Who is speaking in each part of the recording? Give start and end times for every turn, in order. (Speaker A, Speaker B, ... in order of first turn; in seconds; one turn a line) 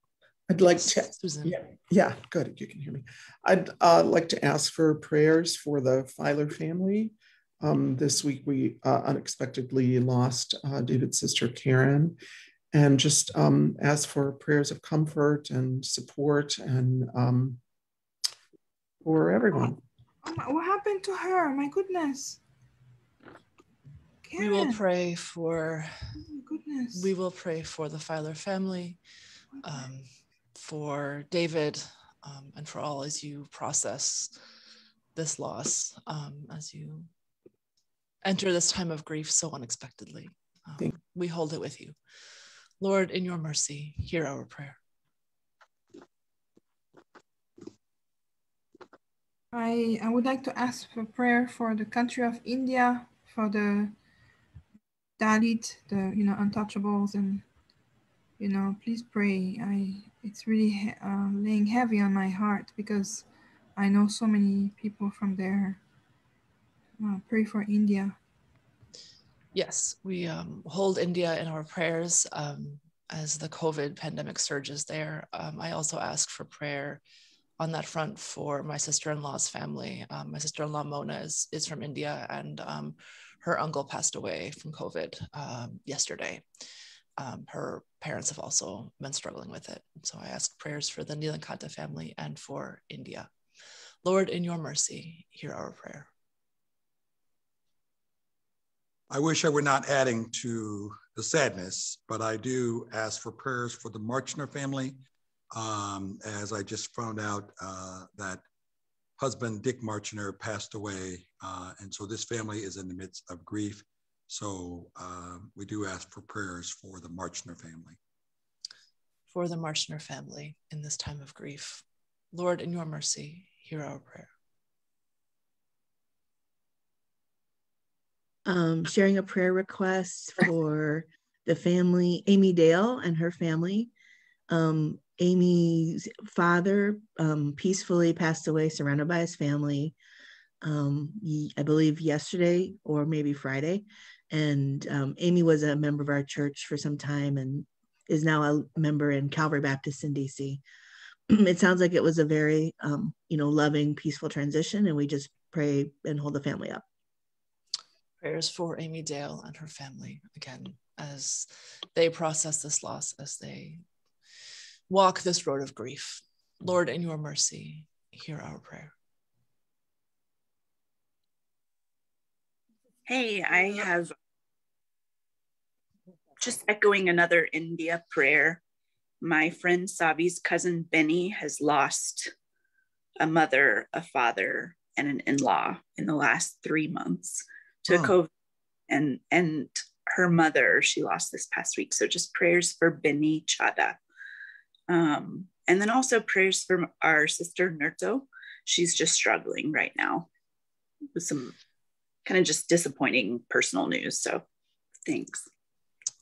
Speaker A: 0.5-12.2
Speaker B: 0.8-1.6
Speaker A: 12.7-17.6
Speaker A: 19.0-19.8
Speaker C: 20.2-22.4
Speaker C: 24.2-24.8
Speaker B: 24.4-25.9
Speaker C: 26.2-27.1
Speaker B: 26.9-29.0
Speaker B: 29.6-34.4
Speaker B: 35.1-37.1
Speaker B: 38.2-42.0
Speaker B: 42.8-44.8
Speaker C: 49.5-53.9
Speaker C: 55.2-57.4
Speaker C: 58.4-65.8
Speaker C: 67.0-68.2
Speaker B: 69.5-77.0
Speaker B: 77.6-86.4
Speaker B: 87.2-93.3
Speaker B: 94.0-96.1
Speaker D: 99.1-105.0
Speaker D: 105.5-108.4
Speaker D: 109.2-118.0
Speaker B: 119.3-124.3
Speaker E: 128.4-133.9
Speaker E: 134.5-139.9
Speaker E: 140.6-150.6
Speaker E: 151.3-156.8
Speaker B: 158.2-163.8
Speaker B: 164.9-168.9
Speaker F: 173.1-174.1
Speaker F: 176.4-178.6
Speaker F: 179.2-182.3
Speaker F: 183.2-188.3
Speaker F: 188.9-194.0
Speaker F: 194.9-200.3
Speaker F: 201.1-201.5
Speaker F: 202.2-204.4
Speaker F: 205.1-205.5